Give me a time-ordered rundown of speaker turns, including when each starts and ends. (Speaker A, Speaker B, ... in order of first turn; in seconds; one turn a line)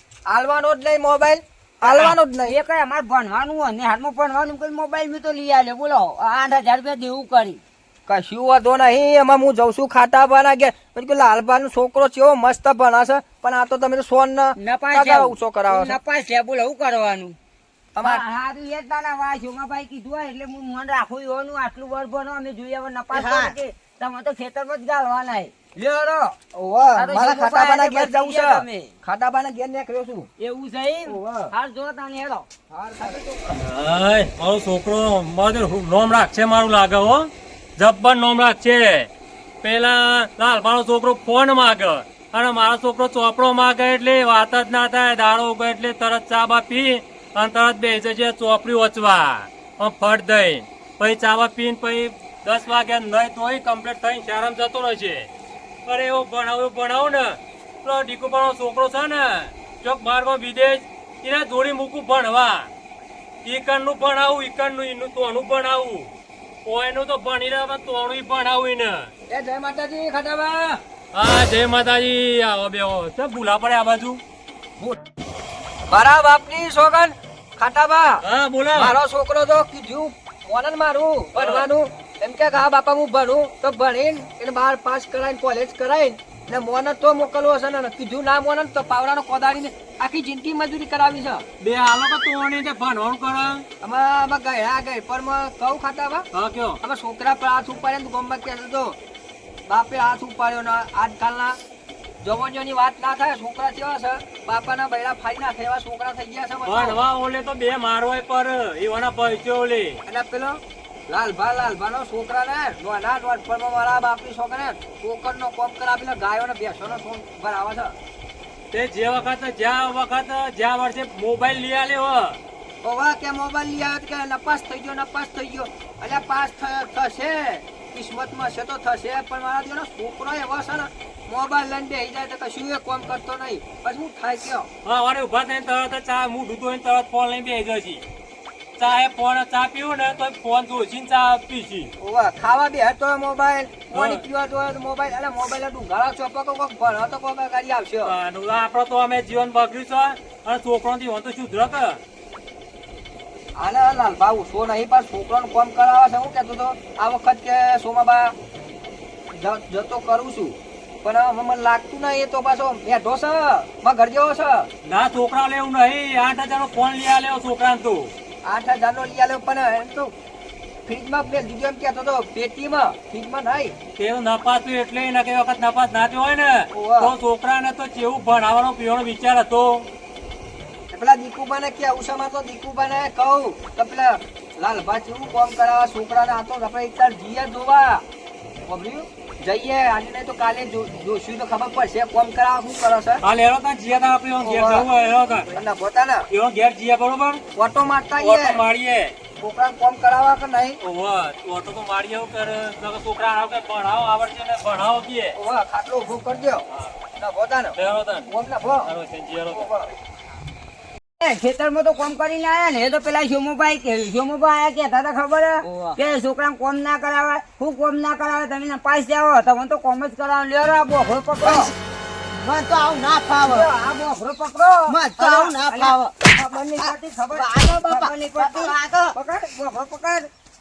Speaker A: 0.3-2.5
Speaker B: 1.8-7.6
Speaker A: 8.1-16.0
Speaker B: 14.6-17.4
Speaker A: 17.9-18.2
Speaker B: 18.0-26.4
Speaker C: 23.1-23.5
Speaker A: 26.5-30.3
Speaker B: 26.9-28.9
Speaker B: 30.4-32.5
Speaker A: 31.1-31.5
Speaker A: 32.7-33.6
Speaker D: 33.5-39.1
Speaker D: 39.6-55.3
Speaker D: 55.9-62.7
Speaker D: 63.4-66.1
Speaker D: 66.6-69.1
Speaker A: 69.3-70.8
Speaker D: 71.1-74.2
Speaker A: 75.9-78.2
Speaker D: 78.2-79.0
Speaker A: 78.7-91.5
Speaker D: 81.3-81.7
Speaker D: 91.6-93.6
Speaker A: 93.8-96.3
Speaker D: 96.3-96.8
Speaker A: 96.8-99.0
Speaker A: 99.7-101.6
Speaker A: 102.2-107.0
Speaker D: 106.6-110.0
Speaker A: 110.0-117.9
Speaker D: 118.7-122.4
Speaker A: 122.8-134.7
Speaker D: 134.8-138.0
Speaker D: 138.8-141.9
Speaker A: 142.0-148.1
Speaker D: 143.9-144.2
Speaker D: 148.0-152.0
Speaker A: 153.5-158.3
Speaker A: 159.3-164.7
Speaker D: 164.8-168.1
Speaker A: 168.4-170.1
Speaker A: 170.9-173.7
Speaker D: 174.0-179.9
Speaker A: 176.7-177.1
Speaker A: 180.9-188.0
Speaker A: 188.7-193.2
Speaker D: 193.2-195.5
Speaker A: 194.4-194.9
Speaker A: 195.5-196.3
Speaker D: 196.3-197.4
Speaker A: 197.5-198.6
Speaker D: 198.2-199.1
Speaker A: 199.4-200.8
Speaker D: 200.8-205.4
Speaker A: 205.3-206.7
Speaker A: 207.2-208.9
Speaker D: 207.7-208.3
Speaker D: 208.8-209.7
Speaker A: 209.5-209.9
Speaker B: 211.2-221.7
Speaker A: 215.6-216.0
Speaker C: 221.4-221.7
Speaker C: 222.3-223.7
Speaker B: 223.4-230.3
Speaker C: 224.9-226.2
Speaker C: 226.8-229.1